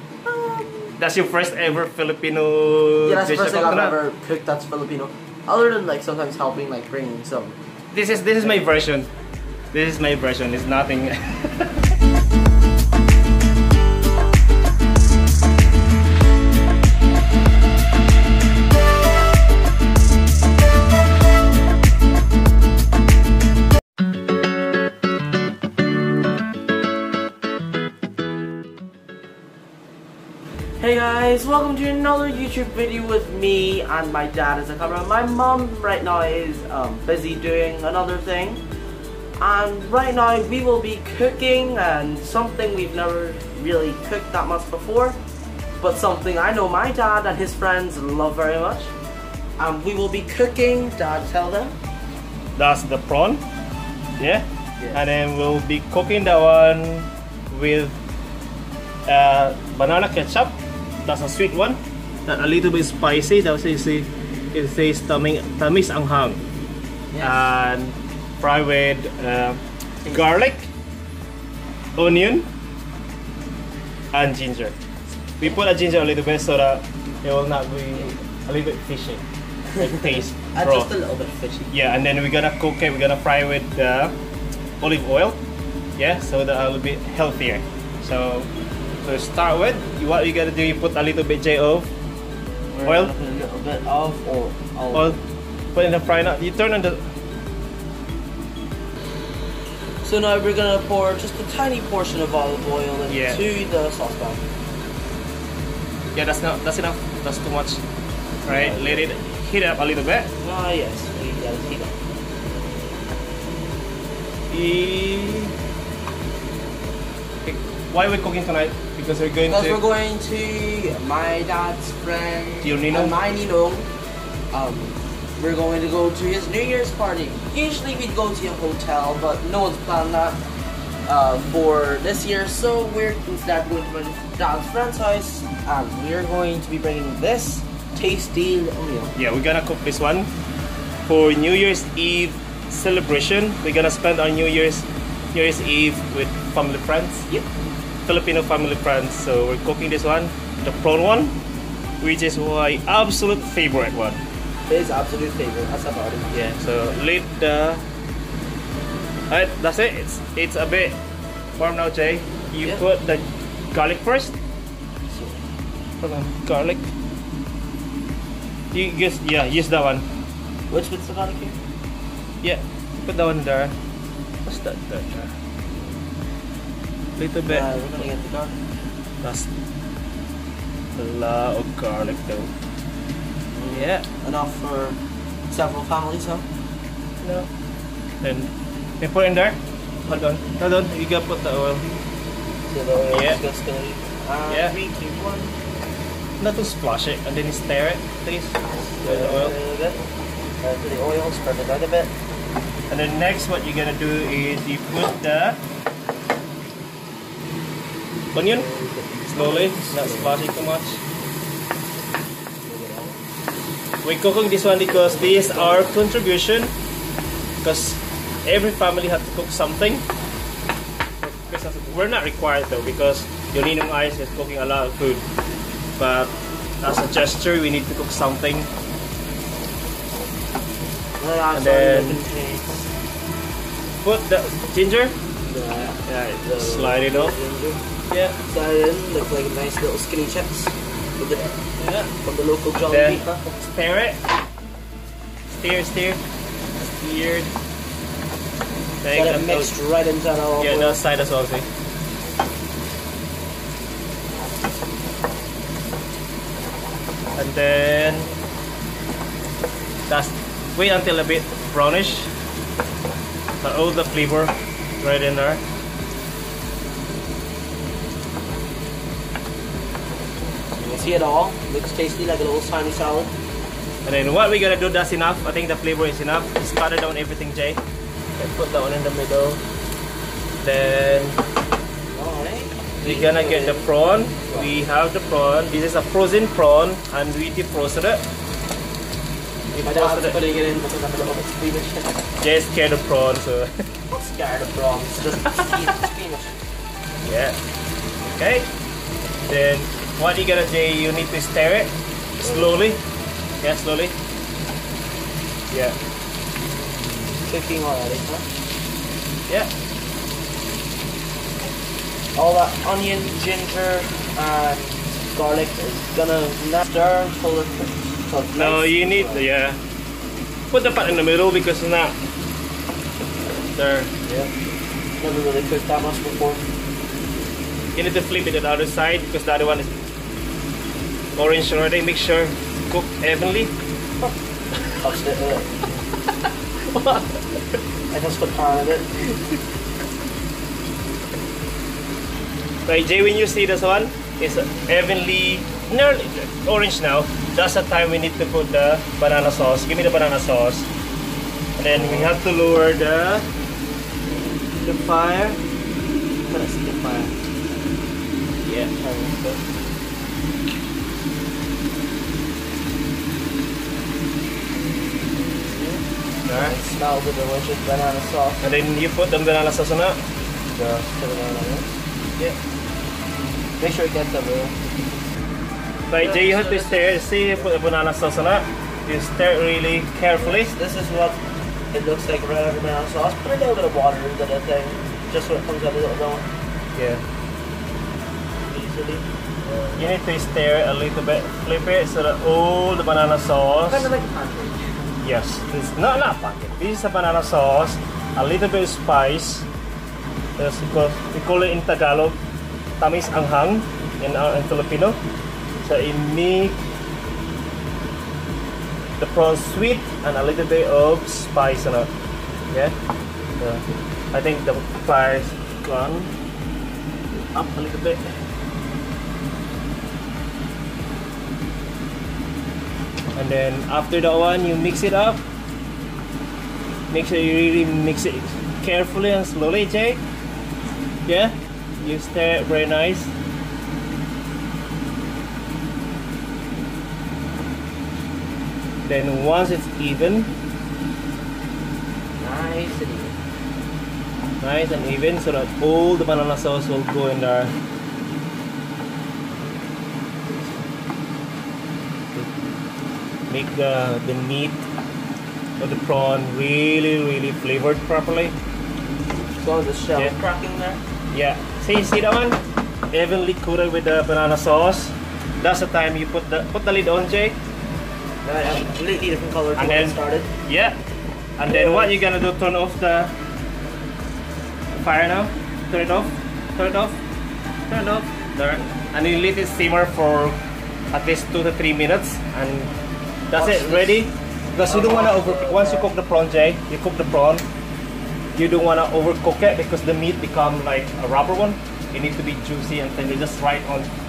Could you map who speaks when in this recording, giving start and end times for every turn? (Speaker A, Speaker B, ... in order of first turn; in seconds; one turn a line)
Speaker A: 0.2-0.9
Speaker B: 1.0-4.0
Speaker A: 3.0-7.6
Speaker B: 7.9-9.1
Speaker B: 9.7-11.8
Speaker A: 30.8-38.6
Speaker A: 39.4-45.2
Speaker A: 45.8-48.9
Speaker A: 49.6-51.7
Speaker B: 52.5-53.4
Speaker B: 54.2-58.0
Speaker B: 59.1-66.4
Speaker A: 67.1-67.5
Speaker B: 67.2-70.7
Speaker B: 72.0-72.5
Speaker B: 74.1-74.7
Speaker B: 75.4-79.2
Speaker B: 79.7-80.9
Speaker A: 80.5-81.7
Speaker B: 81.7-84.1
Speaker B: 84.8-85.4
Speaker B: 86.0-88.5
Speaker B: 89.0-91.9
Speaker A: 92.7-95.2
Speaker B: 92.8-93.1
Speaker B: 94.9-95.2
Speaker B: 95.7-97.0
Speaker A: 100.0-104.4
Speaker B: 103.1-103.5
Speaker B: 106.1-107.8
Speaker B: 108.4-110.3
Speaker A: 108.5-109.1
Speaker A: 110.4-111.9
Speaker B: 114.5-115.5
Speaker B: 117.4-119.8
Speaker A: 119.5-123.9
Speaker B: 122.6-123.2
Speaker A: 124.5-130.4
Speaker A: 131.1-139.1
Speaker B: 139.1-140.3
Speaker B: 141.1-147.3
Speaker B: 148.0-151.3
Speaker B: 152.0-154.2
Speaker A: 154.7-156.4
Speaker B: 156.3-157.8
Speaker B: 159.3-161.0
Speaker B: 161.6-164.3
Speaker A: 165.1-165.4
Speaker B: 166.0-166.9
Speaker B: 168.7-170.1
Speaker A: 170.7-171.6
Speaker B: 172.4-173.8
Speaker B: 174.4-175.3
Speaker B: 177.2-177.7
Speaker A: 177.4-178.6
Speaker B: 179.2-179.5
Speaker B: 180.9-182.5
Speaker A: 183.5-185.0
Speaker B: 183.7-184.1
Speaker A: 185.5-186.4
Speaker B: 187.2-187.5
Speaker B: 188.2-191.9
Speaker A: 192.7-195.5
Speaker B: 193.1-193.4
Speaker B: 194.5-194.7
Speaker B: 196.4-199.5
Speaker A: 199.0-200.0
Speaker A: 200.6-202.1
Speaker B: 202.9-205.6
Speaker B: 208.3-208.7
Speaker A: 208.5-210.5
Speaker B: 209.3-211.0
Speaker A: 212.6-213.2
Speaker B: 214.0-216.7
Speaker A: 214.9-215.9
Speaker B: 217.6-220.0
Speaker B: 221.2-225.2
Speaker B: 226.0-228.7
Speaker A: 231.2-232.8
Speaker B: 231.5-232.2
Speaker B: 234.0-235.2
Speaker A: 235.4-237.8
Speaker B: 236.1-237.4
Speaker B: 238.1-238.4
Speaker A: 238.4-241.5
Speaker B: 241.8-242.1
Speaker A: 242.2-243.5
Speaker B: 242.9-244.2
Speaker B: 245.5-246.2
Speaker A: 246.8-247.5
Speaker B: 249.0-249.7
Speaker A: 249.1-251.0
Speaker B: 250.6-251.7
Speaker B: 257.4-258.3
Speaker B: 260.1-262.3
Speaker B: 263.6-265.6
Speaker A: 270.8-273.3
Speaker B: 274.0-277.8
Speaker B: 278.4-279.6
Speaker B: 280.6-281.4
Speaker A: 282.1-283.9
Speaker B: 283.0-288.2
Speaker A: 289.7-292.2
Speaker B: 289.7-290.4
Speaker B: 292.4-293.7
Speaker A: 294.1-296.6
Speaker B: 297.2-297.6
Speaker B: 298.3-298.7
Speaker B: 299.5-303.0
Speaker A: 302.4-302.9
Speaker B: 303.6-304.1
Speaker B: 305.7-306.0
Speaker A: 307.3-308.4
Speaker A: 312.3-319.4
Speaker B: 318.6-319.8
Speaker B: 320.7-322.2
Speaker B: 323.7-324.1
Speaker A: 324.2-324.5
Speaker A: 325.2-326.6
Speaker B: 327.9-329.9
Speaker B: 331.4-333.7
Speaker A: 334.9-335.8
Speaker B: 336.8-337.4
Speaker A: 338.1-339.3
Speaker B: 342.9-350.9
Speaker B: 351.8-353.5
Speaker A: 351.9-352.3
Speaker B: 354.8-355.6
Speaker B: 356.5-357.3
Speaker B: 358.6-358.9
Speaker A: 358.9-359.6
Speaker A: 365.7-366.0
Speaker B: 366.4-366.7
Speaker A: 366.5-368.6
Speaker B: 368.6-370.2
Speaker A: 370.7-372.6
Speaker A: 373.8-374.8
Speaker B: 376.1-380.7
Speaker A: 376.1-377.7
Speaker A: 380.4-381.4
Speaker A: 381.9-386.4
Speaker B: 386.9-387.2
Speaker A: 388.7-390.0
Speaker B: 389.9-394.1
Speaker A: 393.9-394.9
Speaker B: 395.2-399.7
Speaker B: 400.6-402.4
Speaker B: 403.0-405.2
Speaker B: 405.8-406.8
Speaker B: 409.2-412.1
Speaker B: 413.6-416.3
Speaker A: 417.5-417.9
Speaker B: 417.7-418.2
Speaker B: 423.3-425.4
Speaker B: 427.1-430.2
Speaker B: 431.3-433.3
Speaker B: 439.0-440.5
Speaker A: 442.4-443.3
Speaker B: 444.6-447.7
Speaker A: 450.5-450.8
Speaker B: 453.5-454.8
Speaker B: 455.8-458.5
Speaker A: 459.6-461.0
Speaker B: 461.3-462.6
Speaker B: 463.1-467.6
Speaker A: 468.4-470.5
Speaker B: 469.8-471.0
Speaker B: 471.6-473.3
Speaker A: 471.7-472.1
Speaker B: 474.9-477.2
Speaker B: 477.9-480.6
Speaker B: 481.1-482.9
Speaker B: 483.5-487.6
Speaker A: 483.5-484.2
Speaker A: 484.8-486.1
Speaker B: 488.5-494.1